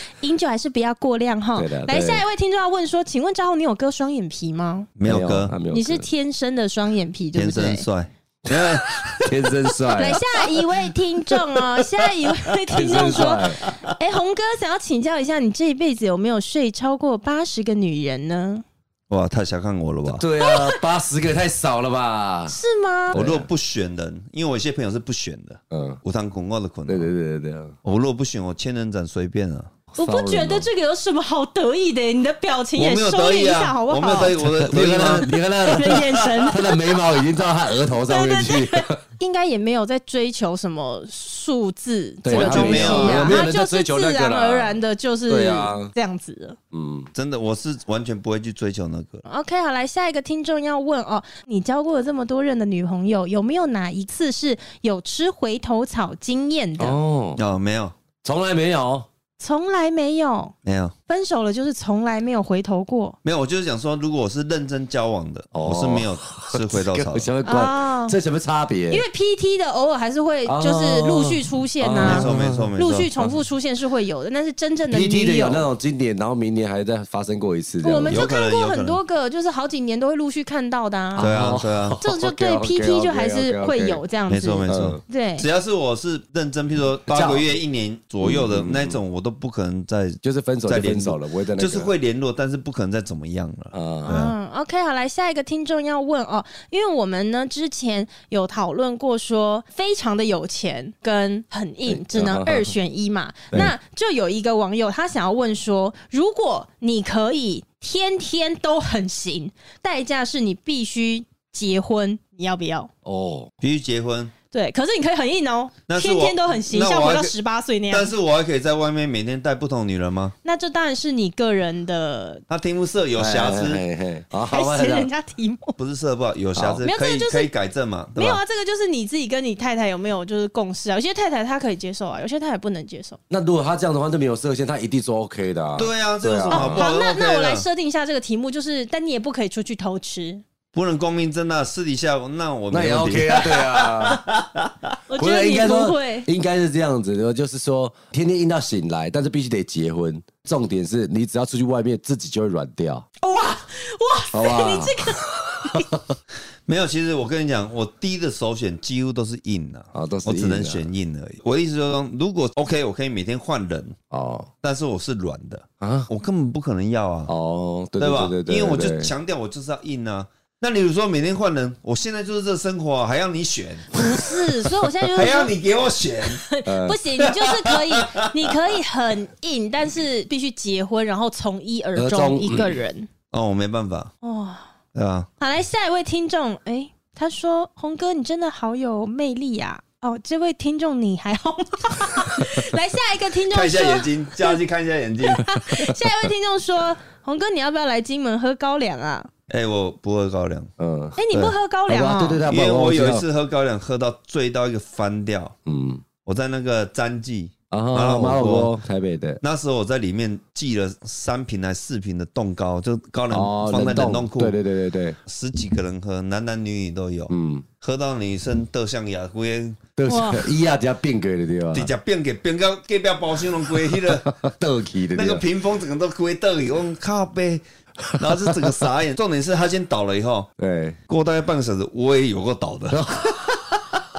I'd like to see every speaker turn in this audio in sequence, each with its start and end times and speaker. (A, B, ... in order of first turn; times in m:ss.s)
0:00.2-0:04.9 A
0:01.6-0:02.2 B
0:05.0-0:05.5 C
0:05.1-0:06.1 B
0:05.7-0:07.9 A
0:07.4-0:09.8 C
0:08.4-0:10.2 B
0:10.0-0:18.6 A
0:12.7-0:13.6 B
0:13.0-0:13.4 C
0:19.1-0:20.2 C
0:20.1-0:22.6 B
0:20.4-0:20.8 A
0:22.5-0:23.2 A
0:23.1-0:23.5 B
0:23.1-0:27.1 C
0:25.7-0:26.0 B
0:26.9-0:27.8 B
0:27.8-0:29.7 C
0:29.9-0:30.7 B
0:30.0-0:34.5 A
0:32.8-0:35.3 C
0:34.4-0:39.0 B
0:35.6-0:37.0 A
0:35.9-0:36.2 C
0:37.9-0:46.6 A
0:42.2-0:45.9 B
0:42.3-0:43.4 C
0:46.7-0:47.1 B
0:47.1-0:49.2 C
0:49.3-0:57.0 A
0:56.8-0:57.4 B
0:57.4-0:57.9 C
0:58.2-0:59.1 B
0:59.4-1:00.5 A
1:00.6-1:00.9 C
1:01.1-1:03.2 A
1:03.2-1:07.3 C
1:05.5-1:09.0 B
1:07.4-1:08.2 A
1:08.9-1:15.7 A
1:10.5-1:12.7 B
1:12.0-1:13.1 C
1:14.9-1:18.2 B
1:17.8-1:21.4 A
1:18.1-1:19.0 C
1:21.2-1:24.0 B
1:21.2-1:22.0 C
1:22.0-1:25.5 A
1:24.3-1:34.3 C
1:24.7-1:25.0 B
1:27.1-1:27.6 B
1:28.2-1:29.0 B
1:30.2-1:31.9 B
1:33.7-1:34.1 B
1:34.1-1:52.9 A
1:41.9-1:42.8 B
1:53.0-1:53.5 B
1:53.6-1:54.3 C
1:54.5-1:58.1 A
1:55.9-1:57.4 C
1:57.9-2:00.4 C
2:00.4-2:02.4 A
2:02.5-2:03.8 C
2:03.2-2:05.1 B
2:04.4-2:05.8 A
2:05.8-2:08.4 C
2:06.6-2:06.8 B
2:06.8-2:07.5 A
2:08.2-2:13.2 A
2:13.3-2:16.8 B
2:15.8-2:17.7 C
2:16.5-2:20.4 A
2:20.7-2:24.7 C
2:22.7-2:24.2 B
2:25.1-2:26.3 A
2:25.2-2:33.1 B
2:33.2-2:36.0 A
2:34.3-2:36.1 B
2:36.7-2:44.0 C
2:39.9-2:40.9 B
2:44.1-2:44.5 B
2:44.6-2:47.3 C
2:45.8-2:46.1 B
2:47.3-2:49.1 B
2:48.0-2:54.1 C
2:53.9-2:55.5 A
2:55.1-2:56.4 C
2:56.3-3:03.1 A
2:56.7-2:57.0 B
2:57.2-2:58.2 C
3:02.0-3:02.8 B
3:03.3-3:04.1 C
3:04.2-3:04.6 A
3:05.0-3:05.3 C
3:05.4-3:14.6 A
3:13.5-3:15.9 C
3:15.2-3:19.3 A
3:19.5-3:20.7 C
3:20.8-3:21.2 B
3:21.2-3:22.4 A
3:21.9-3:23.2 B
3:22.4-3:25.6 C
3:25.7-3:26.0 B
3:26.2-3:28.7 C
3:27.7-3:29.4 B
3:29.4-3:34.6 C
3:33.3-3:35.2 B
3:35.3-3:39.8 C
3:37.3-3:37.7 B
3:40.0-3:41.9 B
3:40.1-3:40.5 A
3:41.7-3:44.3 C
3:43.7-3:45.4 B
3:45.1-3:47.6 C
3:48.1-3:48.8 B
3:48.2-3:50.5 C
3:50.6-3:51.0 B
3:51.1-3:53.0 C
3:52.9-3:53.8 B